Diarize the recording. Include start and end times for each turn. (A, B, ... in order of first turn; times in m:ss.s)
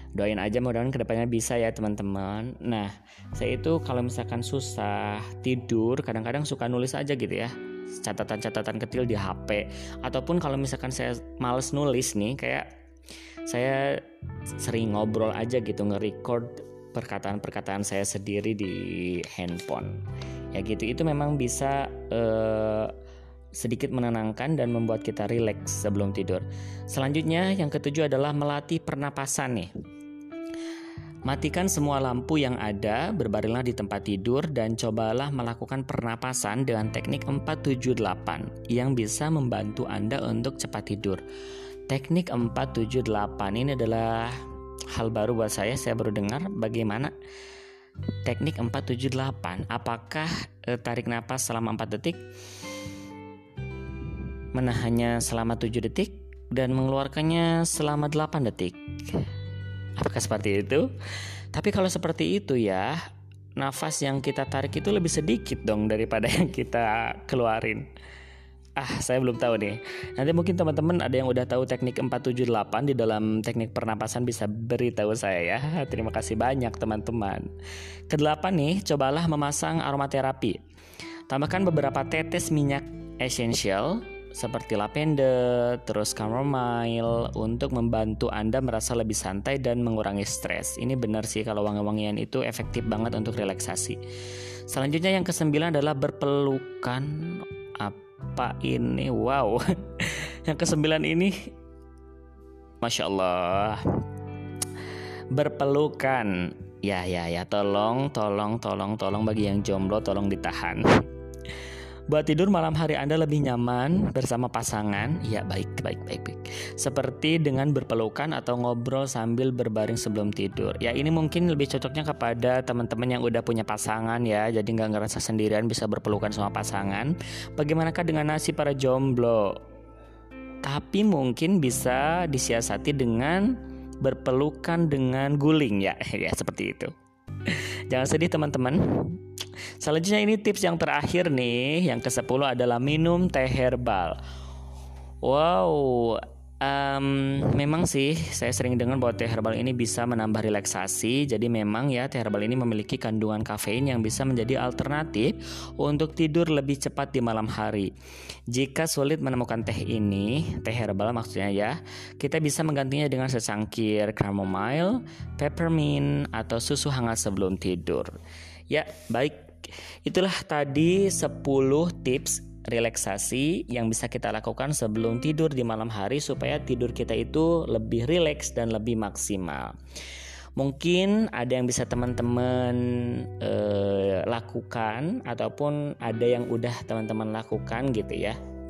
0:00.2-0:12.7 A
0:13.5-0:14.0 A
0:14.6-0:20.0 A
0:20.5-0:22.9 A
0:23.6-0:29.7 A
0:31.2-0:41.2 A
0:41.9-0:44.4 A
0:44.9-0:47.1 A
0:48.2-0:52.2 A
0:54.5-0:59.2 A
1:00.0-1:00.9 A
1:01.5-1:03.0 A
1:03.6-1:07.9 A
1:08.8-1:17.5 A
1:18.1-1:20.6 A
1:21.3-1:34.0 A
1:34.7-1:41.5 A
1:42.8-1:44.0 A
1:45.3-1:50.9 A
1:52.1-2:09.6 A
2:10.6-2:16.9 A
2:17.5-2:19.2 A
2:19.8-2:24.2 A
2:25.2-2:37.9 A
2:38.5-2:48.1 A
2:48.7-2:49.5 A
2:50.0-2:59.8 A
3:00.6-3:08.4 A